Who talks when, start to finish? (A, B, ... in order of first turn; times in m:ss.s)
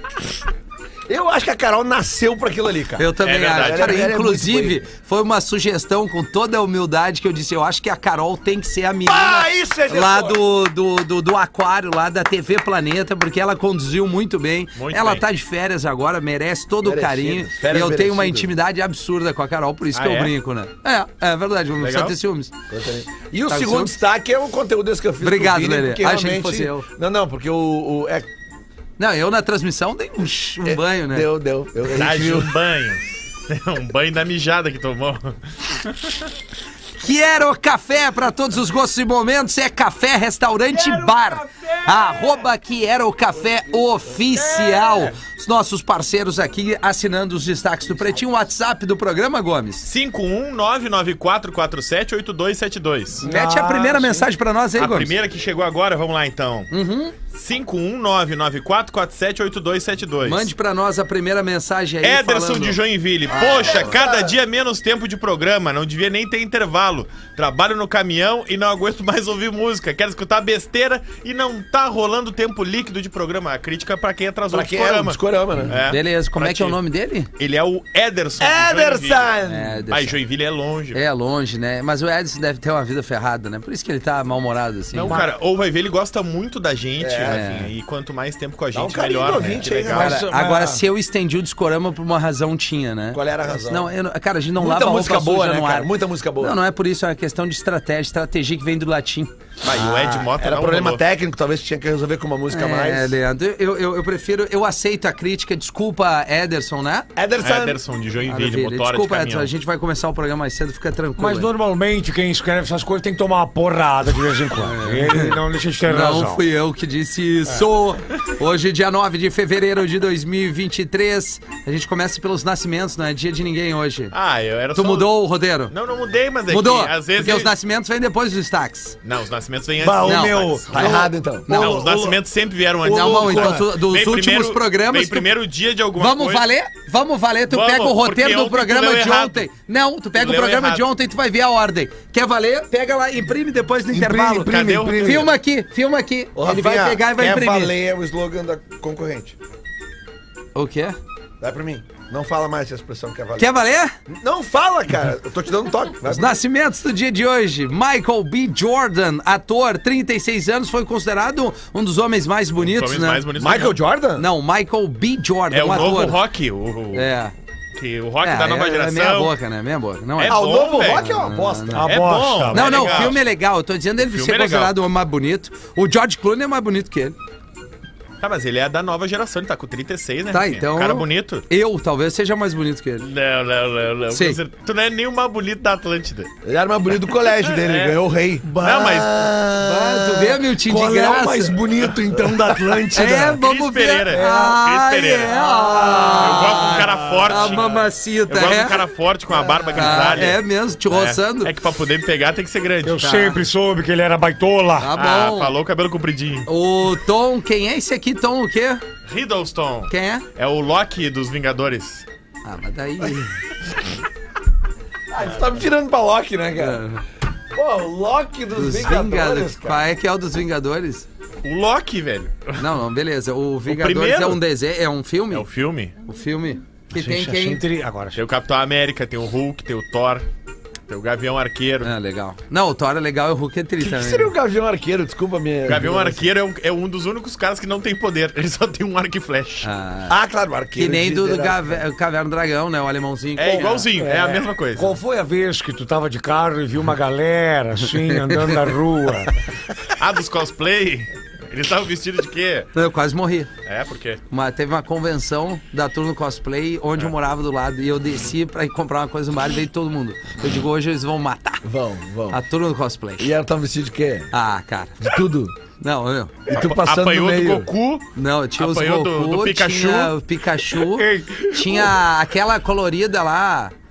0:01.1-0:04.8 A
0:03.0-0:22.5 B
0:03.2-0:04.0 C
0:09.1-0:10.4 A
0:14.8-0:15.2 C
0:16.8-0:18.5 A
0:19.9-0:20.4 C
0:21.8-0:22.2 C
0:22.7-0:28.3 A
0:23.5-0:24.0 B
0:25.2-0:26.9 B
0:29.0-0:31.3 B
0:30.6-0:32.6 A
0:31.9-0:36.2 C
0:37.0-0:49.9 B
0:41.3-0:41.7 C
0:44.6-0:45.0 C
0:49.8-0:53.2 C
0:53.2-0:55.1 B
0:53.2-0:54.3 D
0:54.8-0:56.7 C
0:56.7-0:57.1 B
0:57.3-1:00.5 C
1:00.2-1:03.9 B
1:02.0-1:16.8 C
1:03.6-1:04.3 A
1:14.5-1:15.8 A
1:15.7-1:17.3 B
1:17.4-1:19.3 C
1:18.4-1:19.8 A
1:19.5-1:20.2 B
1:19.9-1:21.0 C
1:20.9-1:25.2 B
1:24.9-1:30.2 C
1:27.0-1:27.4 A
1:27.2-1:27.7 B
1:28.7-1:30.3 A
1:29.9-1:39.3 B
1:30.0-1:30.8 D
1:33.1-1:33.9 A
1:34.6-1:36.6 A
1:39.6-1:41.0 C
1:39.6-1:43.2 A
1:42.5-1:47.1 B
1:47.2-1:47.8 A
1:47.4-1:49.5 C
1:48.3-1:51.5 B
1:51.2-1:56.4 D
1:54.6-2:04.1 B
2:04.1-2:05.2 C
2:04.7-2:05.7 B
2:05.7-2:07.5 C
2:06.5-2:09.0 B
2:09.0-2:16.5 C
2:09.8-2:10.9 D
2:10.0-2:11.9 B
2:10.7-2:12.2 A
2:12.8-2:13.7 A
2:12.8-2:15.3 B
2:16.0-2:27.8 B
2:17.5-2:19.5 C
2:20.2-2:20.8 C
2:23.9-2:25.3 D
2:24.4-2:25.3 C
2:26.4-2:29.4 A
2:30.6-2:31.0 B
2:31.4-2:36.4 A
2:33.4-2:33.9 B
2:36.1-2:43.2 B
2:42.6-2:43.8 C
2:43.4-2:44.3 A
2:44.2-2:46.2 B
2:45.5-2:47.1 C
2:46.9-2:47.3 B
2:47.8-2:49.3 C
2:48.2-2:51.9 B
2:50.2-2:51.1 C
2:50.3-2:52.1 A
2:51.8-2:53.1 D
2:51.8-2:53.2 C
2:52.5-2:57.2 B
2:54.0-2:54.8 C
2:58.2-3:01.4 C
3:00.3-3:03.1 B
3:03.0-3:06.3 C
3:04.1-3:04.4 B
3:06.4-3:10.5 A
3:07.1-3:08.0 C
3:08.5-3:09.3 C
3:09.6-3:11.6 B
3:10.6-3:13.4 D
3:12.0-3:13.1 A
3:12.9-3:18.8 B
3:13.2-3:15.4 C
3:15.6-3:16.2 D
3:16.2-3:23.1 C
3:16.7-3:17.2 D
3:19.3-3:19.8 A
3:19.8-3:21.5 B
3:22.8-3:24.9 D
3:23.0-3:23.4 B
3:24.8-3:25.5 B
3:25.0-3:26.5 C
3:26.5-3:28.8 B
3:29.1-3:32.0 C
3:29.9-3:30.2 B
3:32.4-3:33.4 B
3:35.1-3:36.8 A
3:36.6-3:37.0 B
3:37.5-3:39.9 A
3:38.6-3:41.1 B
3:41.4-3:42.7 C
3:42.6-3:45.5 B
3:43.7-3:44.4 C
3:45.3-3:46.0 C
3:46.0-3:47.6 B
3:46.9-3:48.2 D
3:48.2-3:50.2 C
3:50.9-3:51.9 C
3:51.8-3:54.3 B
3:53.8-3:56.3 A
3:55.7-3:59.7 C
3:59.6-4:00.2 B
4:00.1-4:01.8 A
4:00.8-4:03.9 B
4:03.4-4:05.0 C
4:03.6-4:09.4 D
4:08.1-4:08.6 B
4:10.0-4:12.7 C
4:12.8-4:13.5 B
4:13.6-4:14.2 C
4:14.3-4:21.6 B
4:21.6-4:22.4 A
4:22.3-4:23.3 B
4:23.2-4:24.3 A
4:24.3-4:25.0 B
4:25.0-4:25.6 A
4:25.8-4:26.5 B
4:26.5-4:27.7 A
4:26.5-4:30.2 C
4:28.2-4:33.7 B
4:30.9-4:32.0 D